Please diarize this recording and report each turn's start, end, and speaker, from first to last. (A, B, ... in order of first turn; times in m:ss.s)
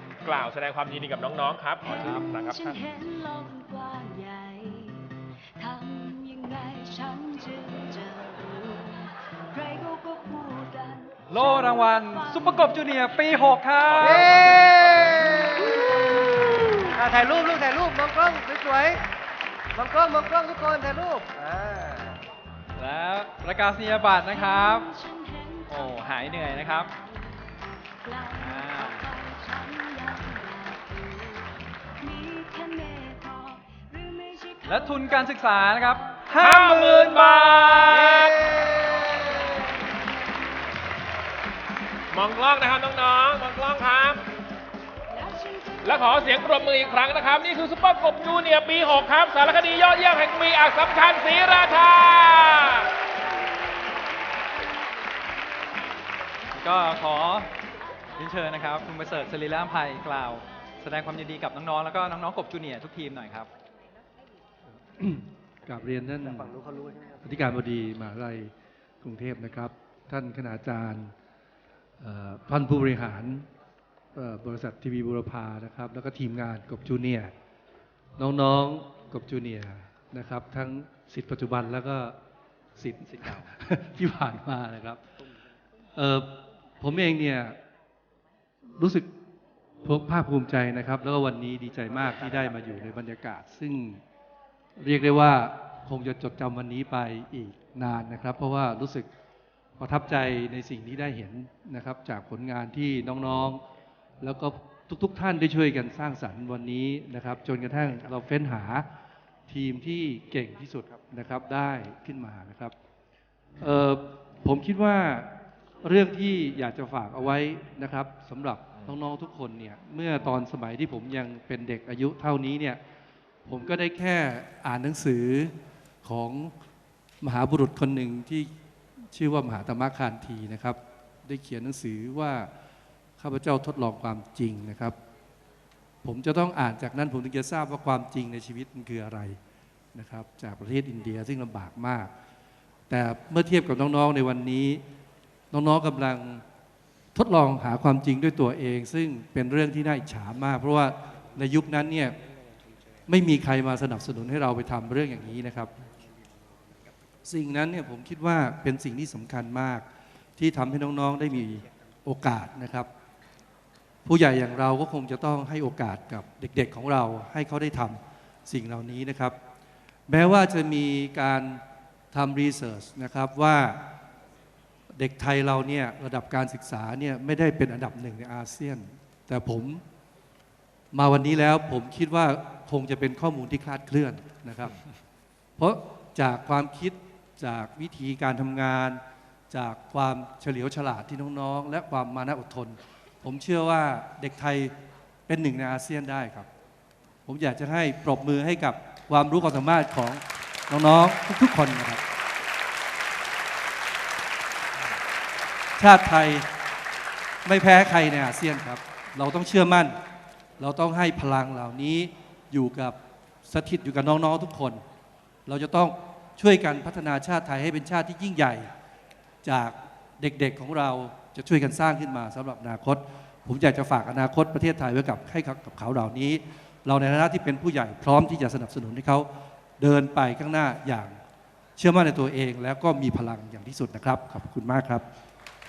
0:00.2-0:02.8 A
0:01.9-0:13.6 B
0:01.9-0:02.3 C
0:11.3-0:14.6 C
0:13.9-0:14.7 A
0:14.0-0:16.4 D
0:15.2-0:17.0 B
0:17.0-0:19.0 D
0:19.7-0:22.2 D
0:22.8-0:24.9 C
0:24.1-0:26.9 B
0:25.7-0:26.9 C
0:28.0-0:36.0 B
0:28.4-0:29.1 C
0:34.7-0:38.1 C
0:36.4-0:38.4 A
0:37.9-0:39.3 D
0:39.3-0:39.7 B
0:42.1-0:44.2 A
0:45.2-0:46.2 B
0:45.8-0:52.9 A
0:56.5-0:57.5 C
0:58.2-1:03.5 C
1:05.0-1:06.5 E
1:06.2-1:07.2 D
1:07.2-1:11.1 E
1:12.0-1:13.5 E
1:14.2-1:17.3 E
1:18.2-1:22.2 E
1:22.8-1:25.0 E
1:23.0-1:23.5 C
1:26.0-1:27.6 E
1:28.8-1:29.1 E
1:29.8-1:34.0 E
1:34.8-1:39.1 E
1:39.8-1:43.6 E
1:44.2-1:48.9 E
1:49.5-1:52.7 E
1:53.6-1:55.3 E
1:55.8-2:02.8 E
2:03.4-2:05.5 E
2:06.0-2:06.5 E
2:07.2-2:08.5 E
2:09.1-2:12.5 E
2:13.2-2:15.0 E
2:16.0-2:19.4 E
2:19.9-2:22.1 E
2:22.9-2:24.8 E
2:25.5-2:26.4 E
2:27.2-2:32.2 E
2:33.1-2:35.7 E
2:37.2-2:39.8 E
2:40.4-2:42.9 E
2:44.0-2:49.4 E
2:50.1-2:53.8 E
2:55.0-2:59.8 E
3:00.9-3:04.8 E
3:05.6-3:14.7 E
3:15.3-3:16.5 E
3:17.3-3:22.0 E
3:25.8-3:26.5 E
3:27.4-3:30.0 E
3:30.6-3:34.8 E
3:35.5-3:38.7 E
3:39.4-3:51.2 E
3:51.8-3:55.0 E